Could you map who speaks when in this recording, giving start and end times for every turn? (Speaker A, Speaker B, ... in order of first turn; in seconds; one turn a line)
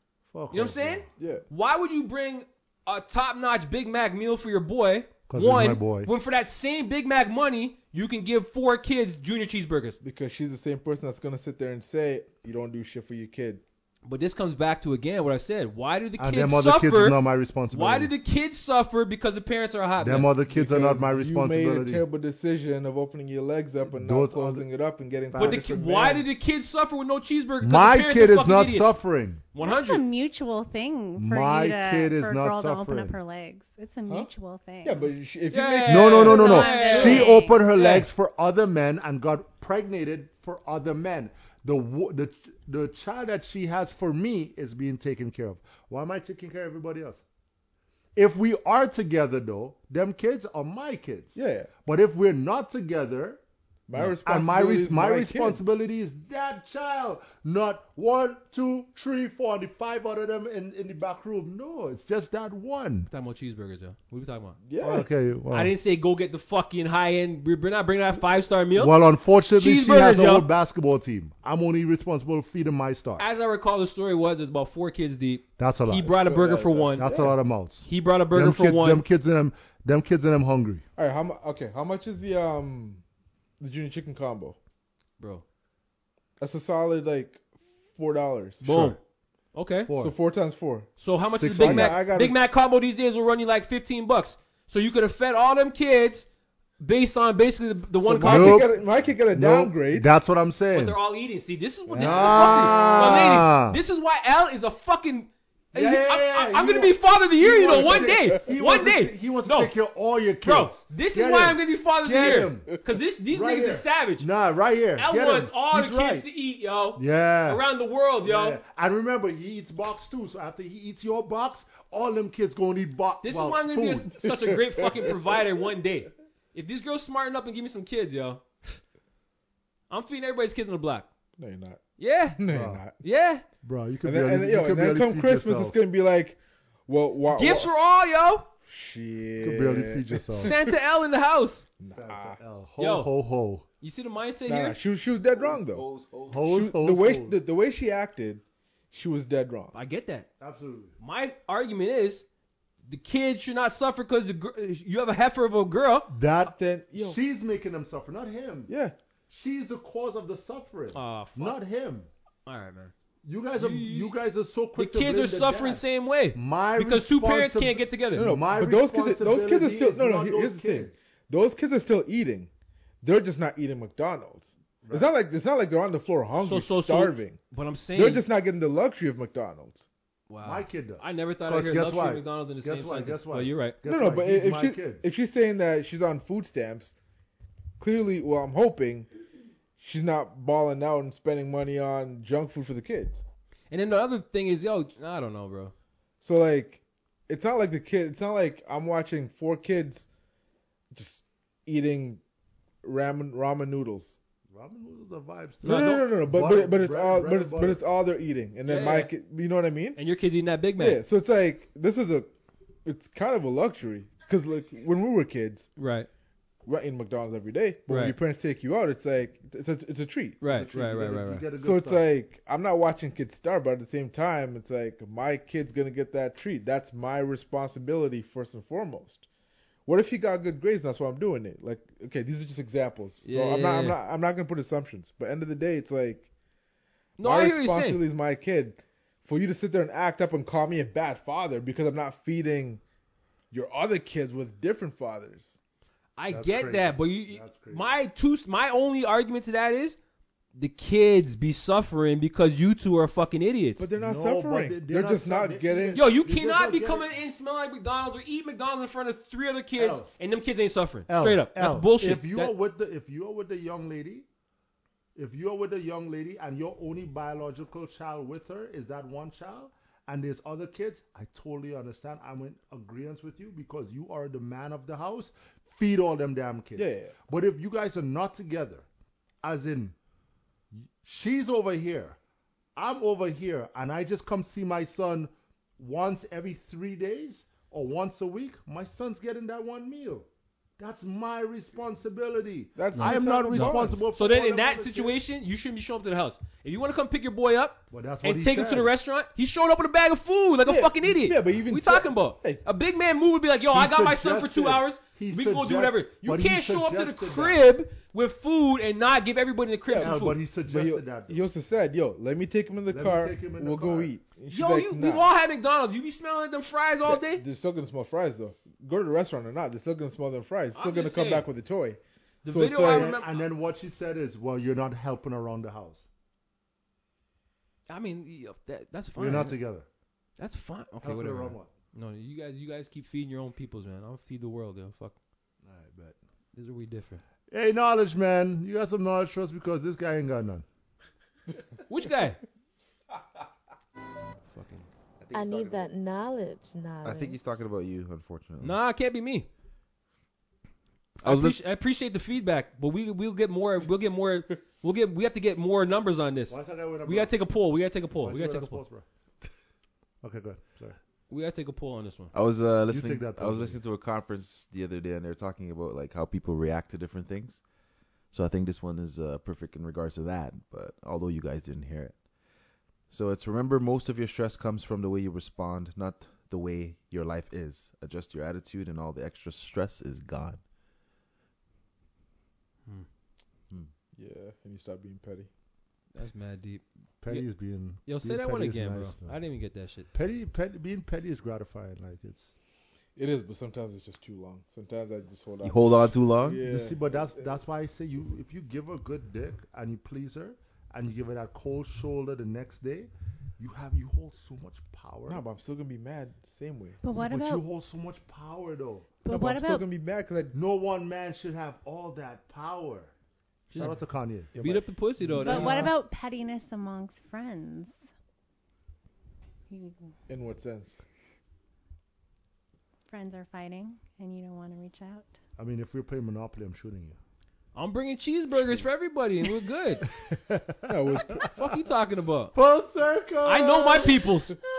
Speaker A: 0.3-1.1
Speaker B: 0.5-10.0
Speaker C: 1.2-1.4
Speaker A: 5.3-6.1
Speaker C: 10.0-13.6
Speaker B: 14.1-17.2
Speaker A: 16.2-18.1
Speaker B: 17.7-20.3
Speaker A: 20.0-22.1
Speaker C: 20.5-26.4
Speaker A: 23.9-24.7
Speaker A: 25.3-25.9
Speaker B: 25.4-28.9
Speaker A: 27.6-29.4
Speaker B: 29.5-30.0
Speaker D: 29.6-35.1
Speaker A: 31.2-33.2
Speaker C: 34.8-36.4
Speaker B: 35.5-38.1
Speaker A: 35.9-47.2
Speaker D: 36.3-37.7
Speaker C: 36.9-37.2
Speaker A: 48.1-53.4
Speaker C: 51.4-51.7
Speaker C: 53.9-55.6
Speaker A: 53.9-63.1
Speaker B: 63.1-64.6
Speaker C: 64.7-65.1
Speaker A: 64.8-65.7
Speaker B: 65.5-69.0
Speaker A: 68.8-73.3
Speaker B: 69.6-70.5
Speaker B: 73.2-77.1
Speaker A: 75.6-76.3
Speaker C: 76.2-77.4
Speaker A: 77.0-80.8
Speaker B: 77.8-79.0
Speaker C: 81.0-83.0
Speaker C: 83.6-84.6
Speaker C: 86.4-88.9
Speaker B: 88.6-89.0
Speaker A: 88.7-88.9
Speaker B: 89.5-89.9
Speaker A: 89.9-90.2
Speaker C: 89.9-90.9
Speaker B: 91.0-96.3
Speaker A: 91.3-92.0
Speaker C: 91.5-92.4
Speaker B: 96.8-98.8
Speaker C: 98.0-100.1
Speaker A: 98.2-98.8
Speaker A: 99.3-101.0
Speaker B: 100.7-109.7
Speaker C: 101.9-103.2
Speaker A: 101.9-103.8
Speaker A: 105.7-112.7
Speaker C: 107.6-108.5
Speaker B: 110.4-114.3
Speaker A: 113.3-116.3
Speaker B: 115.0-118.6
Speaker A: 117.0-117.6
Speaker A: 118.2-124.1
Speaker B: 123.2-128.8
Speaker C: 124.2-125.2
Speaker B: 129.9-131.1
Speaker C: 131.4-131.8
Speaker B: 132.0-132.4
Speaker C: 132.4-132.9
Speaker A: 132.5-132.8
Speaker B: 133.0-133.4
Speaker A: 133.6-135.8
Speaker C: 134.0-137.7
Speaker B: 137.3-138.5
Speaker C: 138.7-140.8
Speaker A: 139.4-140.6
Speaker B: 140.4-141.7
Speaker C: 141.8-142.4
Speaker A: 141.8-143.7
Speaker B: 142.8-143.1
Speaker B: 143.8-144.8
Speaker C: 144.5-145.8
Speaker E: 145.3-146.5
Speaker A: 146.3-147.4
Speaker C: 146.4-149.7
Speaker B: 149.7-150.3
Speaker A: 150.4-150.9
Speaker B: 151.0-152.2
Speaker B: 152.9-156.1
Speaker A: 156.1-158.7
Speaker C: 156.5-157.2
Speaker C: 158.7-158.9
Speaker A: 159.3-162.1
Speaker B: 160.9-161.6
Speaker B: 162.5-162.9
Speaker A: 163.2-171.0
Speaker B: 163.6-164.2
Speaker B: 164.8-168.3
Speaker C: 168.2-172.5
Speaker C: 173.0-177.4
Speaker A: 174.8-175.1
Speaker B: 176.4-178.2
Speaker C: 178.0-179.9
Speaker B: 180.3-183.8
Speaker A: 180.4-185.0
Speaker C: 183.8-187.0
Speaker C: 187.8-189.1
Speaker C: 189.8-193.2
Speaker B: 193.7-195.7
Speaker C: 196.2-200.1
Speaker C: 200.9-202.2
Speaker C: 202.8-204.2
Speaker A: 204.5-207.8
Speaker B: 205.6-206.1
Speaker C: 205.6-210.0
Speaker B: 208.7-209.1
Speaker B: 210.0-211.0
Speaker C: 210.8-212.3
Speaker C: 212.8-215.7
Speaker B: 215.8-216.1
Speaker C: 216.7-220.4
Speaker B: 217.9-218.2
Speaker B: 220.4-221.5
Speaker A: 220.4-222.1
Speaker C: 221.6-229.3
Speaker C: 229.9-236.3
Speaker B: 233.2-234.0
Speaker B: 237.2-238.0
Speaker C: 237.2-242.8
Speaker C: 243.5-245.6
Speaker B: 246.2-250.0
Speaker A: 246.3-247.9
Speaker B: 250.6-253.9
Speaker C: 253.8-256.0
Speaker A: 254.0-257.1
Speaker B: 255.9-262.5
Speaker A: 259.8-260.1
Speaker A: 261.1-264.3
Speaker A: 265.2-278.9
Speaker C: 276.8-277.1
Speaker A: 279.4-279.9
Speaker A: 280.7-282.2
Speaker A: 282.8-290.3
Speaker A: 290.8-295.2
Speaker C: 292.8-294.0
Speaker B: 292.9-310.4
Speaker A: 297.9-298.9
Speaker C: 300.7-302.6
Speaker A: 303.7-307.6
Speaker C: 309.9-315.2
Speaker A: 309.9-311.4
Speaker A: 312.9-314.1
Speaker B: 314.5-317.4
Speaker C: 317.1-323.1
Speaker B: 320.7-321.5
Speaker B: 322.4-323.5
Speaker A: 322.8-326.1
Speaker B: 327.9-329.6
Speaker A: 329.2-329.9
Speaker B: 330.4-335.1
Speaker A: 331.0-331.7
Speaker A: 335.6-336.2
Speaker B: 336.5-337.2
Speaker A: 337.5-340.6
Speaker B: 341.9-342.4
Speaker B: 344.5-344.9
Speaker E: 345.2-345.9
Speaker F: 345.3-347.4
Speaker E: 347.0-348.8
Speaker B: 348.6-349.5
Speaker E: 351.2-351.6
Speaker B: 351.2-358.8
Speaker A: 356.5-357.3
Speaker A: 358.2-359.1
Speaker A: 360.2-361.0
Speaker B: 361.3-362.3
Speaker E: 362.3-367.6
Speaker A: 362.9-363.8
Speaker E: 368.3-372.1
Speaker E: 373.1-380.6
Speaker C: 384.2-385.5
Speaker B: 386.1-387.5
Speaker A: 387.2-389.4
Speaker B: 388.1-390.1
Speaker A: 390.1-392.5
Speaker C: 393.2-397.6
Speaker E: 395.6-396.6
Speaker A: 396.6-405.4
Speaker C: 405.3-407.0
Speaker D: 407.0-407.6
Speaker A: 407.1-409.1
Speaker D: 409.2-409.9
Speaker C: 409.3-410.6
Speaker A: 410.5-413.1
Speaker B: 413.7-414.0
Speaker A: 413.8-414.6
Speaker C: 414.5-415.9
Speaker B: 414.6-415.9
Speaker A: 415.3-415.9
Speaker D: 415.4-418.0
Speaker D: 419.7-420.1
Speaker C: 420.3-421.0
Speaker D: 423.1-425.3
Speaker A: 425.6-427.2
Speaker B: 427.8-430.1
Speaker A: 430.2-431.3
Speaker C: 430.9-431.5
Speaker B: 431.4-432.6
Speaker A: 432.5-434.3
Speaker B: 433.4-434.6